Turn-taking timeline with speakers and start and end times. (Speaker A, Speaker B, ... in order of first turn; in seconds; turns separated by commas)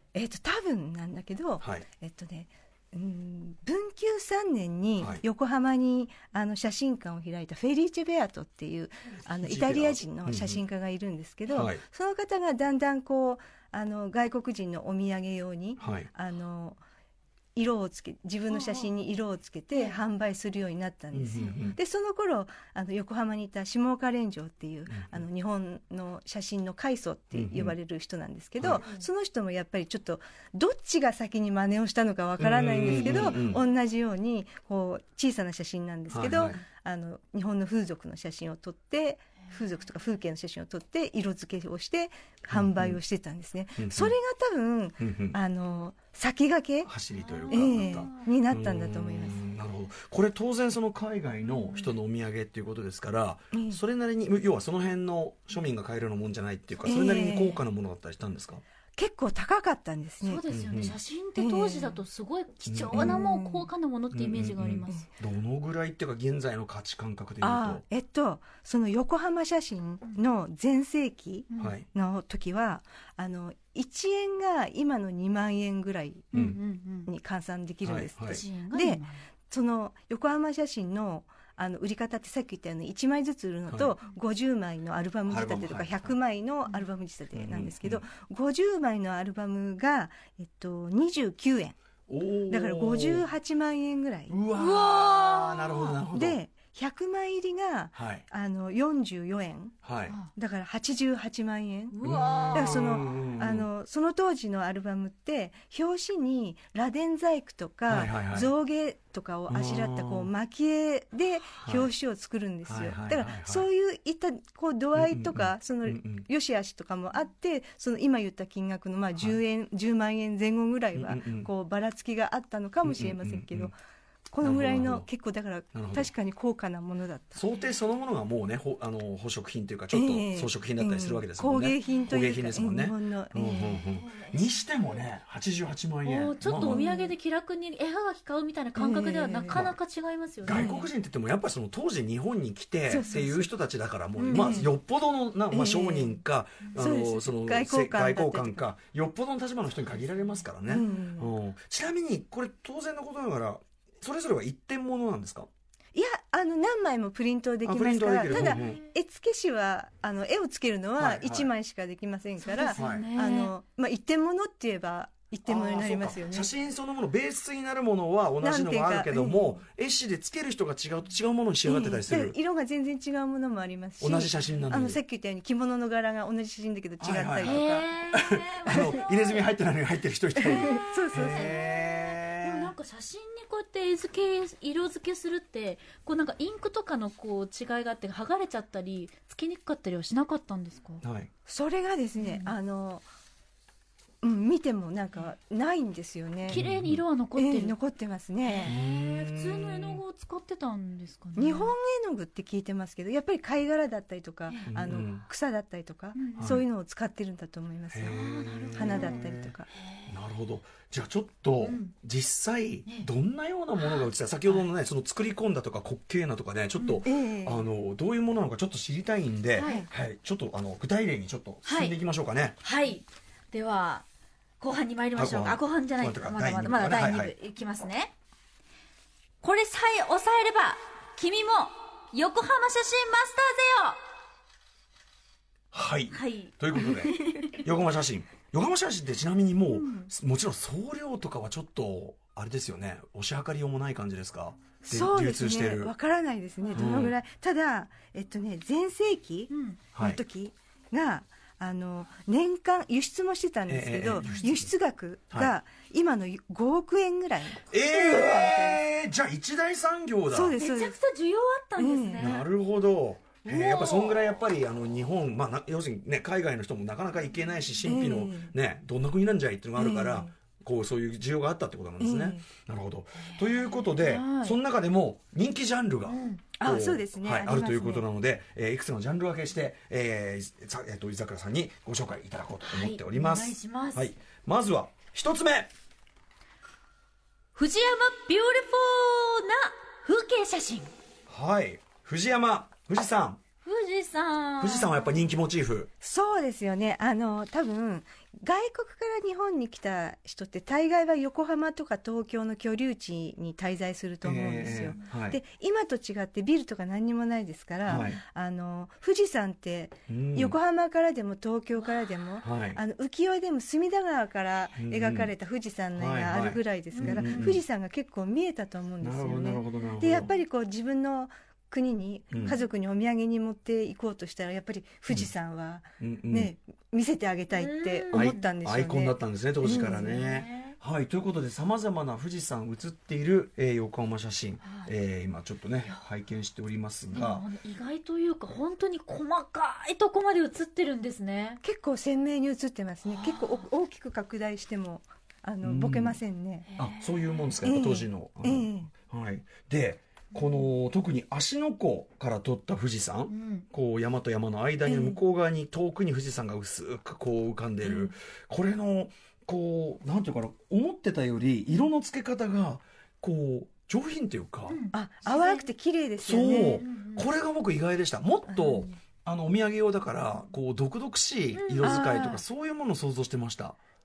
Speaker A: 0.1-16.8, Speaker B: 1.6-1.9, Speaker B: 9.4-10.6, Speaker B: 11.5-11.8, Speaker B: 15.8-16.1, Speaker A: 17.5-46.9, Speaker C: 18.5-18.9, Speaker B: 21.1-21.8, Speaker C: 21.3-21.7, Speaker B: 24.9-25.2, Speaker B: 27.3-27.7, Speaker B: 28.6-28.9, Speaker B: 32.4-33.6, Speaker C: 33.0-33.2, Speaker B: 36.1-36.6, Speaker B: 42.5-43.0, Speaker B: 43.8-44.1, Speaker B: 45.0-45.4, Speaker B: 46.8-58.6, Speaker C: 47.2-48.3, Speaker A: 47.5-49.4, Speaker C: 51.5-51.9, Speaker A: 53.5-53.8, Speaker A: 56.8-57.6, Speaker A: 59.0-60.4, Speaker C: 60.2-65.0, Speaker B: 60.5-61.0, Speaker A: 61.4-62.0, Speaker B: 62.7-63.2, Speaker A: 62.9-63.7, Speaker B: 64.1-67.8, Speaker A: 67.4-76.3, Speaker C: 71.5-71.8, Speaker B: 71.6-71.8, Speaker B: 76.3-76.6, Speaker C: 76.3-77.1, Speaker A: 77.0-91.8, Speaker B: 77.8-78.4, Speaker C: 78.2-79.2, Speaker B: 83.7-83.9, Speaker B: 85.3-86.2, Speaker B: 87.3-88.0, Speaker B: 92.1-93.2, Speaker A: 92.5-94.3, Speaker B: 94.3-96.4, Speaker C: 94.5-96.0, Speaker A: 96.1-99.7, Speaker B: 97.9-98.2, Speaker B: 99.8-100.2, Speaker A: 100.3-102.0, Speaker C: 101.9-103.0, Speaker B: 102.0-103.7, Speaker A: 102.5-123.7, Speaker B: 107.9-108.5, Speaker B: 109.5-110.3, Speaker B: 111.6-111.9, Speaker B: 112.7-113.7, Speaker B: 115.0-116.2, Speaker B: 120.9-121.5, Speaker B: 122.8-123.7, Speaker A: 124.3-127.4, Speaker B: 124.4-125.1, Speaker B: 125.7-126.1, Speaker B: 127.3-136.8, Speaker A: 129.9-133.8, Speaker C: 133.7-135.0, Speaker C: 136.0-140.8, Speaker A: 136.5-137.1, Speaker A: 138.8-139.6, Speaker B: 140.4-155.5, Speaker A: 140.5-140.8, Speaker A: 142.9-143.5, Speaker A: 144.2-144.7, Speaker C: 144.2-144.6, Speaker A: 145.5-146.2, Speaker A: 146.7-148.7, Speaker A: 150.7-151.3, Speaker A: 155.9-166.5, Speaker B: 157.6-158.8, Speaker C: 158.2-158.8, Speaker B: 161.0-161.5, Speaker C: 162.4-163.5, Speaker B: 162.7-163.1, Speaker B: 165.4-172.3, Speaker A: 168.4-169.5, Speaker A: 171.6-177.8, Speaker B: 174.0-175.0, Speaker B: 177.0-182.7, Speaker C: 177.4-179.5, Speaker A: 180.4-181.5, Speaker C: 180.4-191.0, Speaker B: 191.0-191.3, Speaker A: 191.5-193.1, Speaker C: 192.2-192.5, Speaker A: 194.2-196.6, Speaker B: 196.5-197.0, Speaker C: 196.5-197.8, Speaker A: 197.3-198.7, Speaker C: 198.4-201.7, Speaker B: 198.6-200.0, Speaker A: 201.4-208.2, Speaker B: 204.7-205.2, Speaker C: 206.1-206.6, Speaker B: 206.4-206.6, Speaker B: 207.9-209.5, Speaker C: 208.1-210.1, Speaker A: 208.7-209.7, Speaker B: 210.1-222.6, Speaker C: 211.6-211.9, Speaker C: 213.8-214.6, Speaker A: 217.0-217.6, Speaker C: 219.6-219.8, Speaker A: 219.6-219.9, Speaker C: 221.6-221.9, Speaker C: 222.6-224.0, Speaker C: 224.6-228.1, Speaker B: 225.2-227.3, Speaker C: 229.4-234.0, Speaker B: 235.7-245.9, Speaker C: 236.1-237.6, Speaker C: 239.7-240.1, Speaker A: 244.8-258.8, Speaker C: 246.7-247.1, Speaker B: 246.7-247.1, Speaker C: 249.5-249.8, Speaker B: 249.9-250.2, Speaker B: 253.7-254.7, Speaker C: 254.2-254.5, Speaker B: 257.7-260.6, Speaker C: 257.9-258.7, Speaker A: 260.3-260.9, Speaker C: 260.6-262.4, Speaker A: 261.8-262.4, Speaker B: 262.2-285.7, Speaker C: 263.4-264.2, Speaker A: 267.8-268.5, Speaker A: 269.8-270.3, Speaker A: 272.0-272.4, Speaker C: 273.3-274.6, Speaker C: 276.1-276.4, Speaker A: 276.6-278.1, Speaker C: 282.6-284.1, Speaker C: 287.5-290.9, Speaker B: 291.3-293.4, Speaker C: 293.6-295.2, Speaker B: 294.6-295.9, Speaker A: 296.0-330.1, Speaker B: 304.2-305.4, Speaker B: 307.9-308.2, Speaker B: 310.1-310.6, Speaker B: 312.4-312.8, Speaker B: 314.8-315.3, Speaker B: 315.9-317.6, Speaker C: 316.9-317.6, Speaker B: 319.0-320.3, Speaker B: 326.0-326.5, Speaker C: 327.5-328.5, Speaker B: 328.1-337.4, Speaker C: 329.7-330.8, Speaker C: 334.6-334.9, Speaker C: 337.1-341.6, Speaker A: 341.6-346.6, Speaker C: 343.1-343.6, Speaker B: 345.6-346.2, Speaker C: 346.7-347.6, Speaker B: 346.8-364.8, Speaker A: 347.6-348.9, Speaker C: 350.4-350.7, Speaker C: 353.3-353.6, Speaker A: 354.9-355.2, Speaker C: 357.8-358.1, Speaker C: 364.7-365.7, Speaker A: 364.9-366.8, Speaker B: 366.2-373.8, Speaker C: 366.4-367.3, Speaker A: 368.5-368.9, Speaker C: 371.5-372.2, Speaker A: 371.8-372.4